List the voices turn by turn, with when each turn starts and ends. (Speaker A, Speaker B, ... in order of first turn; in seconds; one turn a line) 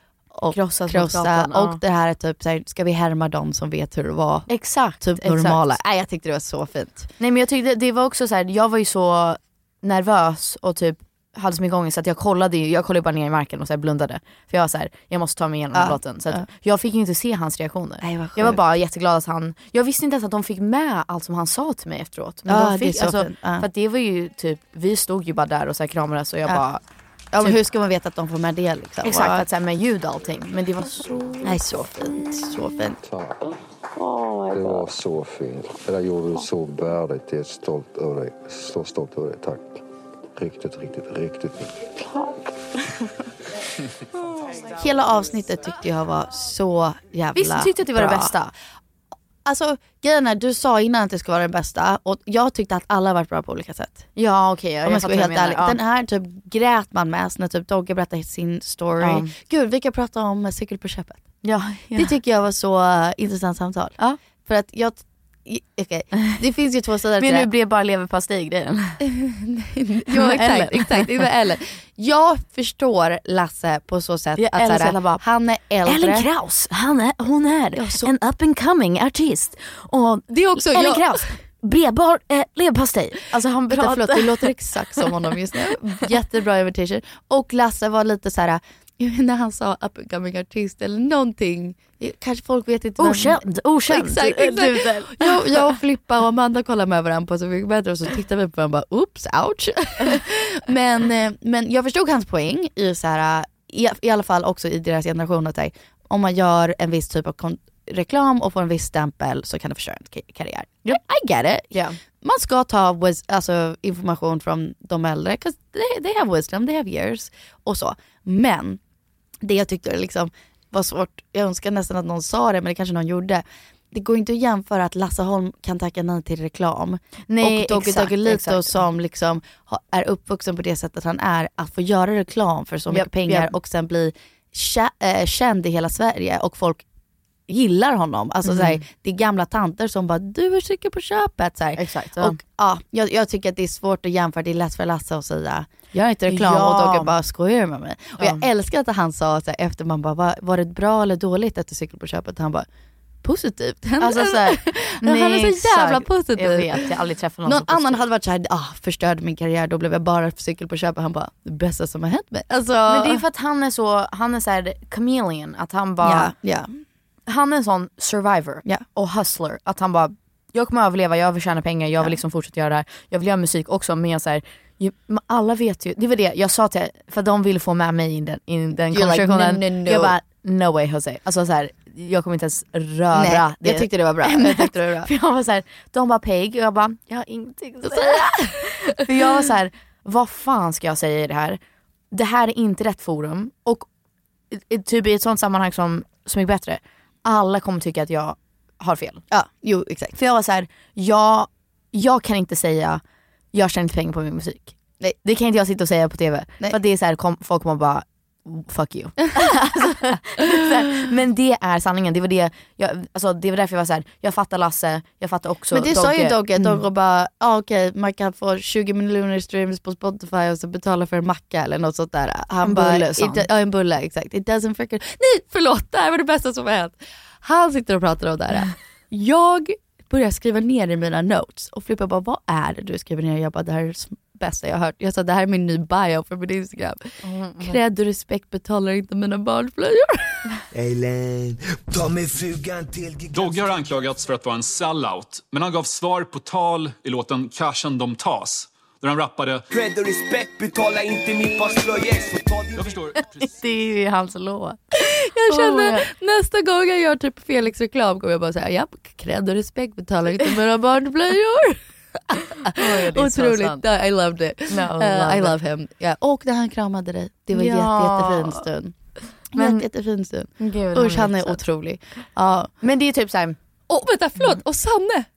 Speaker A: 0.3-4.5
Speaker B: 0.5-1.8
Speaker B: 4.5-5.8
Speaker A: 5.0-7.1
Speaker B: 7.2-26.8
Speaker A: 15.7-16.4
Speaker A: 18.0-18.6
Speaker A: 22.5-23.7
Speaker A: 27.3-29.4
Speaker B: 29.0-31.6
Speaker A: 31.4-33.0
Speaker C: 33.0-33.5
Speaker C: 34.5-39.8
Speaker C: 40.3-42.4
Speaker A: 44.7-48.3
Speaker B: 47.4-48.5
Speaker A: 49.4-54.1
Speaker B: 54.1-55.8
Speaker A: 54.8-61.3
Speaker B: 59.0-59.3
Speaker B: 61.4-62.2
Speaker A: 62.0-67.5
Speaker B: 67.2-69.0
Speaker A: 69.0-76.3
Speaker B: 70.1-71.2
Speaker B: 74.4-75.2
Speaker B: 75.8-85.3
Speaker A: 77.8-78.1
Speaker A: 80.3-81.4
Speaker A: 83.7-118.8
Speaker B: 93.0-95.8
Speaker B: 111.7-112.0
Speaker A: 119.4-136.8
Speaker B: 127.3-128.8
Speaker B: 132.9-133.5
Speaker A: 137.5-152.7
Speaker B: 138.4-138.8
Speaker B: 141.8-142.4
Speaker B: 146.3-147.1
Speaker B: 148.2-148.4
Speaker A: 153.2-156.9
Speaker B: 154.0-158.0
Speaker A: 157.4-163.2
Speaker B: 162.8-166.3
Speaker A: 166.0-166.8
Speaker B: 167.3-191.6
Speaker A: 178.9-180.2
Speaker A: 183.1-185.1
Speaker A: 187.8-189.1
Speaker B: 192.1-193.9
Speaker B: 194.5-199.2
Speaker A: 199.3-200.2
Speaker B: 200.1-203.0
Speaker B: 203.5-216.8
Speaker A: 215.7-240.5
Speaker B: 222.6-223.5
Speaker B: 237.2-237.8
Speaker D: 240.7-243.8
Speaker E: 243.3-249.7
Speaker D: 249.7-253.0
Speaker E: 252.8-253.3
Speaker B: 253.4-256.1
Speaker A: 255.0-268.9
Speaker B: 262.7-263.8
Speaker B: 264.7-265.6
Speaker B: 267.5-268.6
Speaker A: 269.5-272.7
Speaker B: 269.5-269.9
Speaker B: 270.6-271.6
Speaker B: 272.8-273.6
Speaker A: 273.9-275.3